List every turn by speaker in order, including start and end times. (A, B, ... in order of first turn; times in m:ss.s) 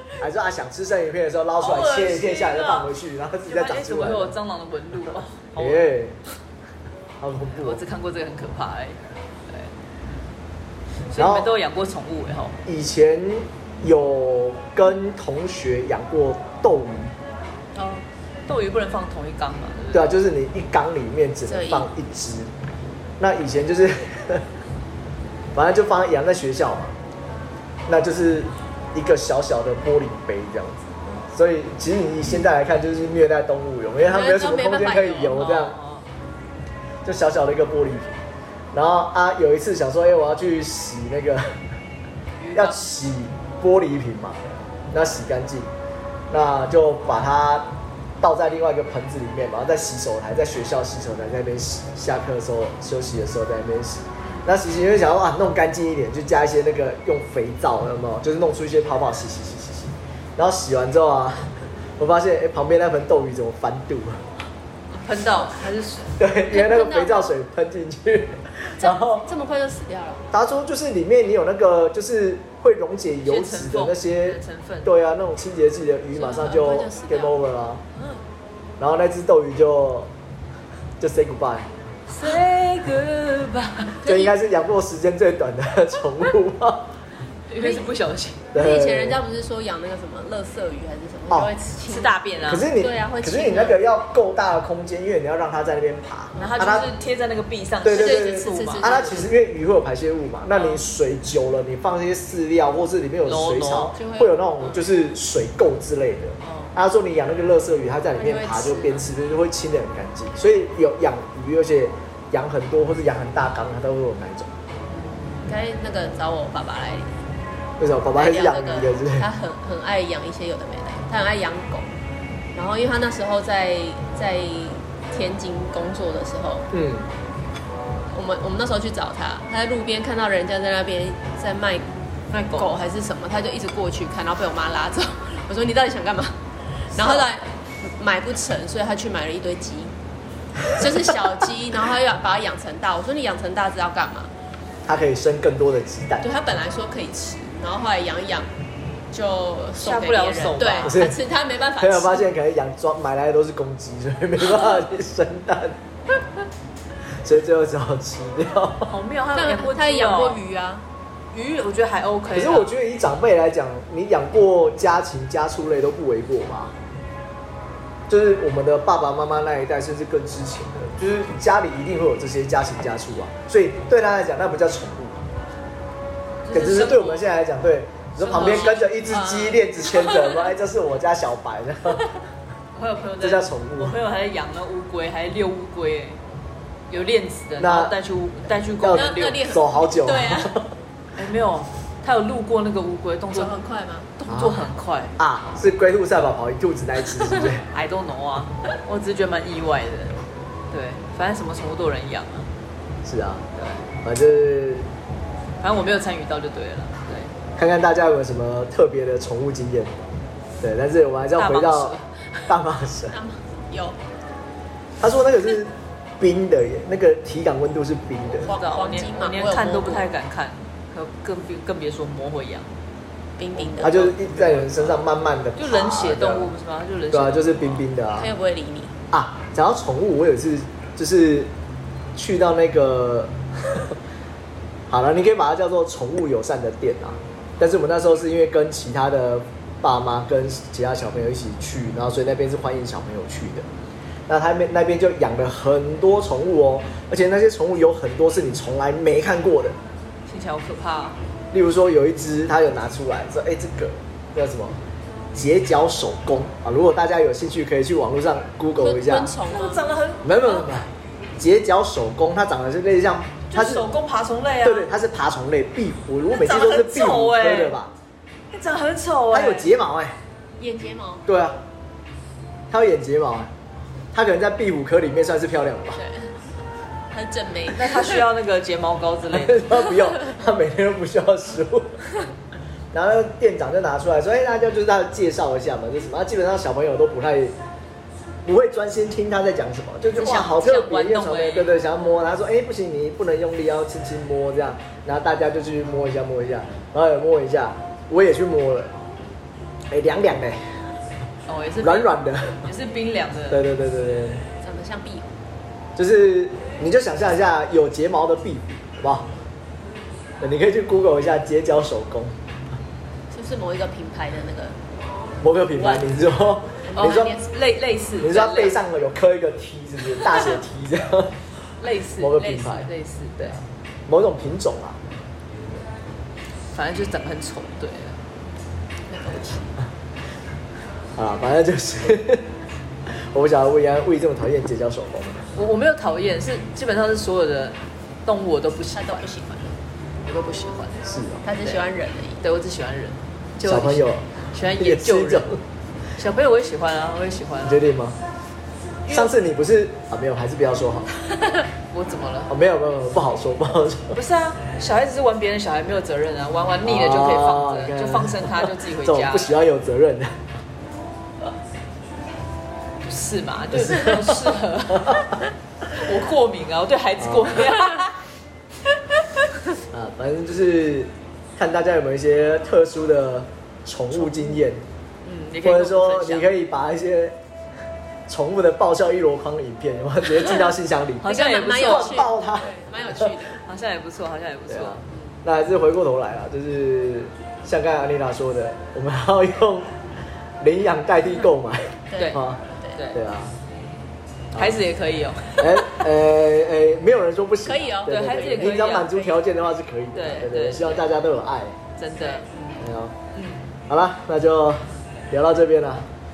0:00.2-0:04.4 A
0:01.6-0:02.9 B
0:03.4-0:05.9 B
0:05.6-0:06.2 A
0:07.2-0:07.8 A
0:07.6-0:09.7 B
0:11.1-0:12.6 B
0:11.1-0:11.5 A
0:12.6-0:17.1 A
0:17.7-0:20.2 B
0:19.9-0:22.5 A
0:21.4-0:21.9 C
0:23.2-0:24.4 A
0:25.5-0:27.0 A
0:27.9-0:35.8 A
0:34.0-0:35.5 C
0:35.3-0:36.1 B
0:37.0-0:38.2 A
0:38.7-0:41.6 A
0:42.4-0:42.9 B
0:42.5-0:45.7 A
0:46.3-1:04.2 A
1:04.9-1:06.2 B
1:06.2-1:09.3 A
1:06.5-1:07.3 C
1:08.8-1:10.2 C
1:10.3-1:17.8 A
1:13.2-1:14.9 B
1:16.1-1:17.4 C
1:18.8-1:20.1 A
1:21.0-1:21.7 A
1:22.1-1:24.0 B
1:24.0-1:26.9 A
1:24.0-1:24.4 C
1:27.5-1:28.5 B
1:28.5-1:29.2 A
1:28.5-1:33.8 C
1:31.8-1:32.7 B
1:32.5-1:36.9 A
1:36.4-1:39.1 B
1:37.8-1:54.5 A
1:37.9-1:39.2 C
1:40.5-1:40.8 B
1:43.2-1:44.0 B
1:44.0-1:44.5 C
1:46.4-1:46.7 B
1:48.2-1:49.1 C
1:54.9-1:55.4 B
1:55.4-1:57.2 C
1:57.8-1:59.3 A
1:58.1-2:01.9 C
2:02.5-2:06.7 C
2:06.7-2:07.1 A
2:08.1-2:11.8 C
2:12.3-2:12.7 B
2:12.4-2:16.4 C
2:16.9-2:19.9 C
2:20.6-2:24.3 C
2:24.8-2:26.2 A
2:26.2-2:28.5 C
2:29.1-2:32.2 C
2:29.8-2:31.0 B
2:30.8-2:31.2 A
2:31.8-2:35.8 A
2:37.2-2:38.9 A
2:38.9-2:40.4 B
2:39.3-2:40.8 C
2:41.3-2:42.8 B
2:42.3-2:46.7 A
2:48.1-2:55.3 A
2:56.4-2:57.3 B
2:56.5-3:02.1 A
2:58.2-2:58.9 B
2:58.3-3:00.5 C
3:02.7-3:06.2 B
3:03.2-3:04.0 A
3:06.9-3:09.5 B
3:07.6-3:07.9 A
3:08.8-3:10.7 A
3:08.9-3:10.6 C
3:11.2-3:13.5 B
3:13.3-3:14.1 C
3:14.2-3:15.2 B
3:14.3-3:17.6 A
3:17.7-3:22.5 B
3:23.0-3:23.4 A
3:23.5-3:23.8 B
3:24.0-3:24.9 A
3:25.6-3:27.3 B
3:27.6-3:30.0 A
3:30.6-3:33.2 A
3:31.3-3:32.1 B
3:33.1-3:34.0 C
3:35.0-3:38.5 A
3:38.4-3:42.7 B
3:38.4-3:40.1 C
3:43.4-3:44.0 C
3:43.6-3:46.5 A
3:43.8-3:47.8 B
3:47.1-3:48.3 A
3:48.1-3:49.0 C
3:49.1-3:51.5 A
3:52.1-3:54.0 A
3:54.9-4:03.7 A
4:04.3-4:09.8 A
4:10.2-4:11.2 B
4:11.5-4:14.8 A
4:15.3-4:19.3 A
4:18.8-4:20.0 C
4:19.4-4:20.6 B
4:20.2-4:23.9 A
4:23.5-4:24.9 B
4:24.6-4:27.9 A
4:26.3-4:27.8 B
4:28.5-4:29.7 B
4:29.3-4:30.2 A
4:30.6-4:31.2 C
4:31.2-4:31.6 A
4:32.7-4:33.5 A
4:34.1-4:36.0 A
4:36.0-4:36.3 C
4:37.1-4:38.2 C
4:37.7-4:39.9 B
4:39.3-4:42.0 A
4:42.9-4:47.5 A
4:48.4-4:59.0 A
4:50.1-4:51.8 B
4:59.9-5:00.8 A
5:01.5-5:03.7 B
5:01.8-5:02.7 A
5:03.5-5:04.4 A
5:04.6-5:05.3 C
5:06.0-5:09.3 A
5:10.4-5:12.3 A
5:13.3-5:14.8 C
5:15.4-5:17.4 A
5:15.8-5:16.1 C
5:16.9-5:17.5 C
5:16.9-5:18.8 B
5:18.2-5:21.4 A
5:21.8-5:23.6 B
5:22.2-5:25.0 A
5:26.7-5:28.2 B
5:29.1-5:29.7 C
5:31.2-5:32.4 A
5:33.1-5:35.5 A
5:35.5-5:39.3 B
5:38.9-5:39.8 C
5:40.2-5:41.1 B
5:41.1-5:41.4 A
5:41.4-5:42.4 C
5:41.6-5:41.8 B
5:42.4-5:45.5 B
5:43.6-5:45.6 A
5:46.2-5:47.9 B
5:47.6-5:48.2 A
5:49.1-5:51.2 A
5:51.9-5:52.5 B
5:52.5-5:54.2 A
5:54.1-5:59.6 B
5:56.8-6:00.4 A
6:03.0-6:05.4 B
6:03.7-6:05.3 A
6:05.9-6:08.2 B
6:07.2-6:07.6 A
6:09.9-6:14.8 A
6:15.2-6:16.5 B
6:15.6-6:17.4 A
6:18.3-6:23.4 A
6:21.2-6:22.3 B
6:21.2-6:23.6 C
6:23.6-6:25.1 B
6:24.7-6:29.9 A
6:30.6-6:32.6 A
6:32.1-6:33.0 C
6:32.2-6:32.4 B
6:32.9-6:33.2 B
6:33.1-6:33.5 A
6:34.5-6:34.8 A
6:34.5-6:35.9 B
6:35.6-6:41.8 A
6:37.6-6:39.3 C
6:38.1-6:39.3 B
6:40.1-6:41.1 B
6:42.0-6:42.7 B
6:42.8-6:43.1 A
6:43.3-6:43.6 B
6:43.9-6:46.1 A